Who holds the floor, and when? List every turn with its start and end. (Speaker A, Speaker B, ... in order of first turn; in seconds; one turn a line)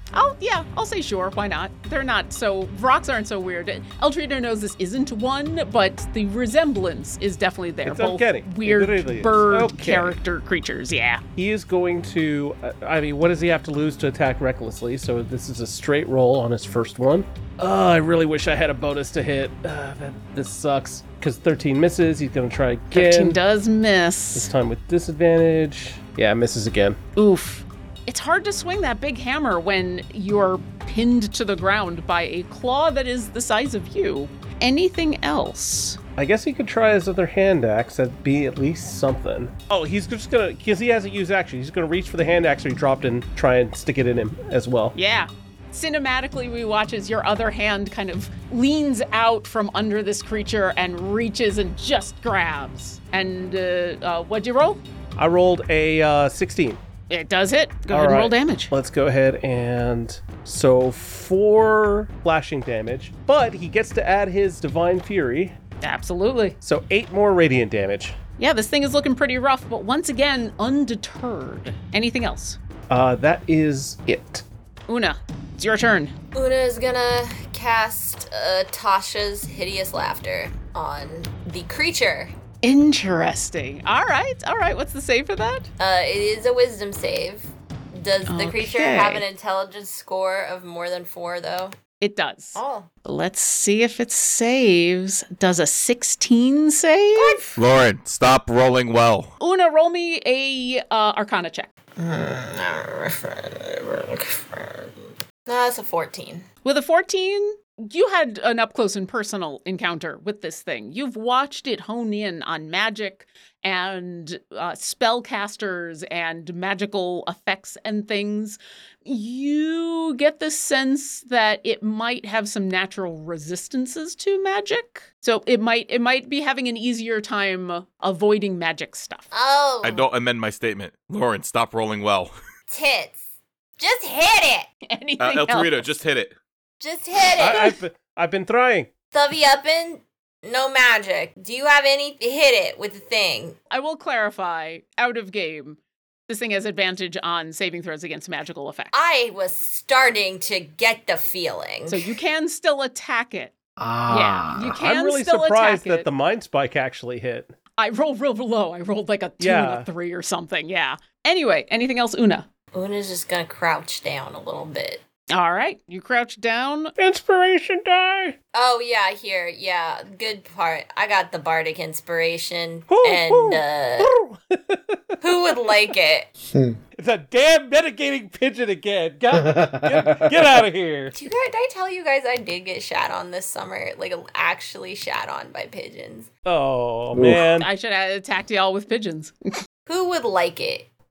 Speaker A: 0.1-11.2
Speaker B: 7.8-10.2
Speaker B: 11.4-23.4
Speaker A: 22.9-24.5
Speaker B: 24.4-27.0
Speaker A: 27.2-36.0
Speaker B: 36.2-45.0
Speaker A: 45.0-54.8
Speaker B: 55.2-56.8
Speaker A: 57.1-58.7
Speaker B: 57.9-65.5
Speaker A: 65.8-66.6
Speaker B: 66.6-68.2
Speaker A: 68.4-72.6
Speaker B: 72.9-74.4
Speaker A: 74.9-76.1
Speaker C: 76.3-82.3
Speaker A: 82.6-85.7
Speaker C: 85.8-91.8
Speaker A: 88.3-89.2
Speaker A: 92.0-97.5
Speaker C: 92.5-92.9
Speaker C: 97.2-97.5
Speaker D: 97.6-99.3
Speaker A: 99.4-101.7
Speaker C: 102.0-106.5
Speaker A: 106.6-129.2
Speaker C: 129.3-130.1
Speaker D: 129.8-132.3
Speaker C: 132.7-133.2
Speaker C: 133.8-134.7
Speaker A: 134.9-135.9
Speaker D: 135.2-136.4
Speaker C: 136.8-137.8
Speaker B: 137.3-138.9
Speaker C: 139.1-143.6
Speaker A: 143.7-148.9
Speaker C: 148.9-152.1
Speaker A: 151.9-153.5
Speaker E: 153.8-154.8
Speaker A: 154.1-156.1
Speaker B: 154.6-157.5
Speaker A: 157.8-162.5
Speaker B: 159.4-159.9
Speaker C: 162.7-165.0
Speaker A: 165.3-166.9
Speaker B: 167.0-168.3
Speaker C: 168.5-174.1
Speaker B: 172.9-175.2
Speaker C: 175.2-176.3
Speaker E: 176.5-176.8
Speaker B: 177.0-181.2
Speaker E: 179.3-180.4
Speaker C: 181.1-186.3
Speaker B: 186.4-187.7
Speaker E: 187.1-187.5
Speaker A: 187.6-189.5
Speaker C: 189.9-190.9